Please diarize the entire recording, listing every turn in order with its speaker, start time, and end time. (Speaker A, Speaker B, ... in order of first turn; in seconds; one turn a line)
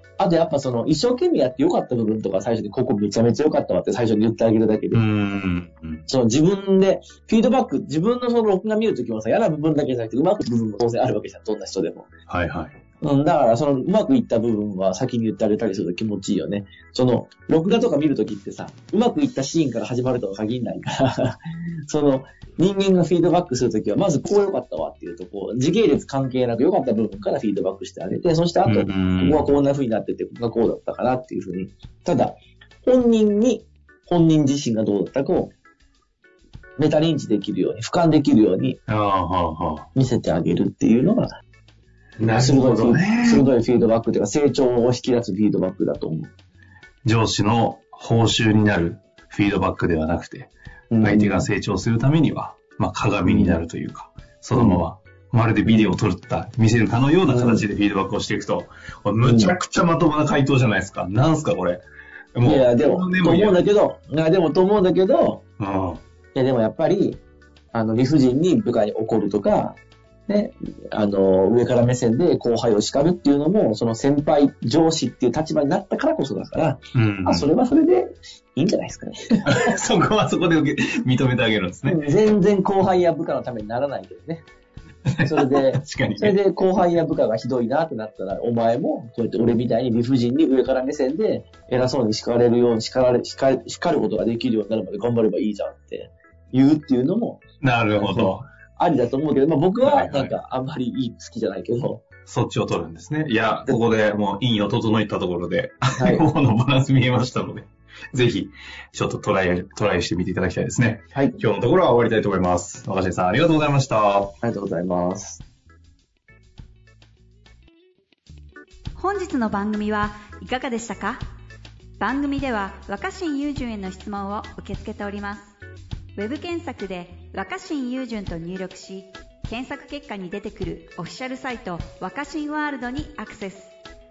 Speaker A: 0.2-5.0
Speaker B: 4.9-6.0
Speaker A: 6.1-12.1
Speaker B: 12.3-12.8
Speaker A: 13.0-35.5
Speaker B: 28.6-29.5
Speaker A: 36.8-38.8
Speaker B: 38.9-39.9
Speaker A: 39.9-41.3
Speaker B: 42.2-43.5
Speaker A: 42.3-46.3
Speaker B: 47.0-63.6
Speaker A: 50.9-51.5
Speaker A: 53.2-53.6
Speaker A: 54.5-54.9
Speaker A: 55.6-56.0
Speaker A: 57.3-57.6
Speaker A: 59.2-59.5
Speaker A: 62.4-65.4
Speaker B: 65.6-66.0
Speaker A: 66.3-67.2
Speaker A: 67.7-79.5
Speaker B: 76.9-77.5
Speaker B: 79.5-82.2
Speaker A: 81.8-84.5
Speaker B: 85.0-86.4
Speaker A: 85.2-102.0
Speaker B: 97.6-98.4
Speaker B: 99.8-100.3
Speaker B: 102.2-114.3
Speaker A: 106.0-106.3
Speaker A: 114.4-115.4
Speaker C: 118.9-121.2
Speaker C: 122.0-125.5
Speaker C: 126.1-133.7